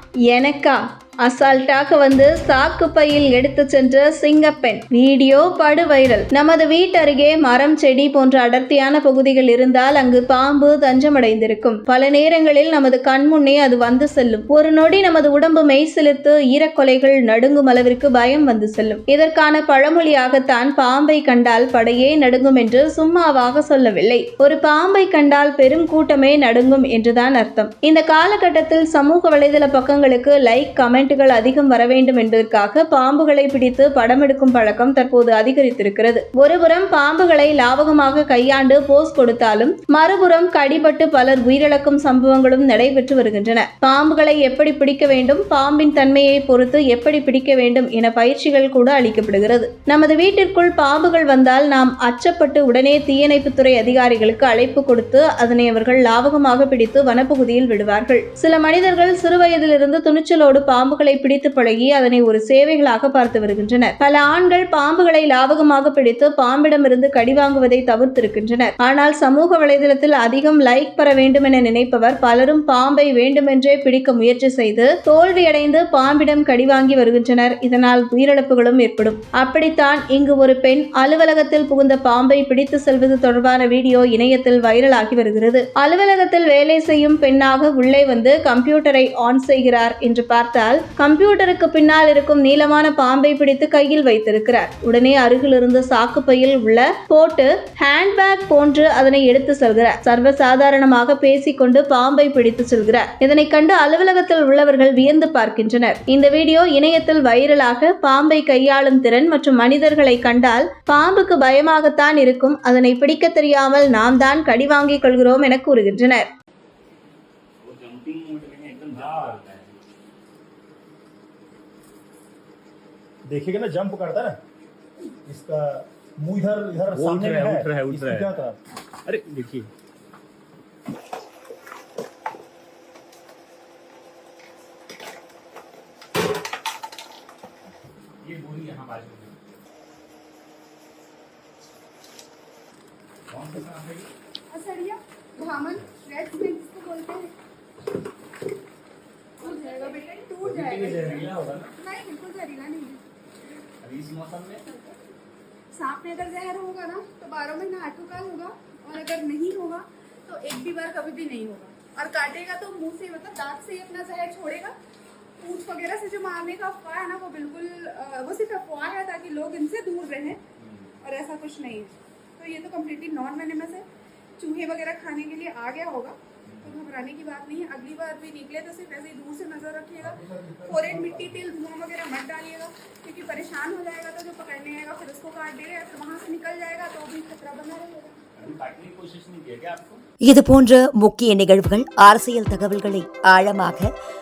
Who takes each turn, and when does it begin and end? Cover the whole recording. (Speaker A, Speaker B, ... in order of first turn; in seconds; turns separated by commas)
Speaker A: 0.3-116.3, Speaker B: 117.6-119.7, Speaker C: 119.0-119.4, Speaker C: 123.3-124.4, Speaker C: 125.2-128.6, Speaker B: 126.9-128.4, Speaker B: 129.1-129.7, Speaker B: 138.2-139.3, Speaker B: 143.3-144.1, Speaker D: 144.5-147.3, Speaker D: 149.4-153.0, Speaker B: 150.4-151.7, Speaker B: 153.8-154.6, Speaker D: 155.7-164.8, Speaker D: 165.4-170.4, Speaker D: 171.0-173.8, Speaker D: 174.4-188.2, Speaker B: 176.4-176.7, Speaker B: 188.3-190.0, Speaker E: 190.2-193.9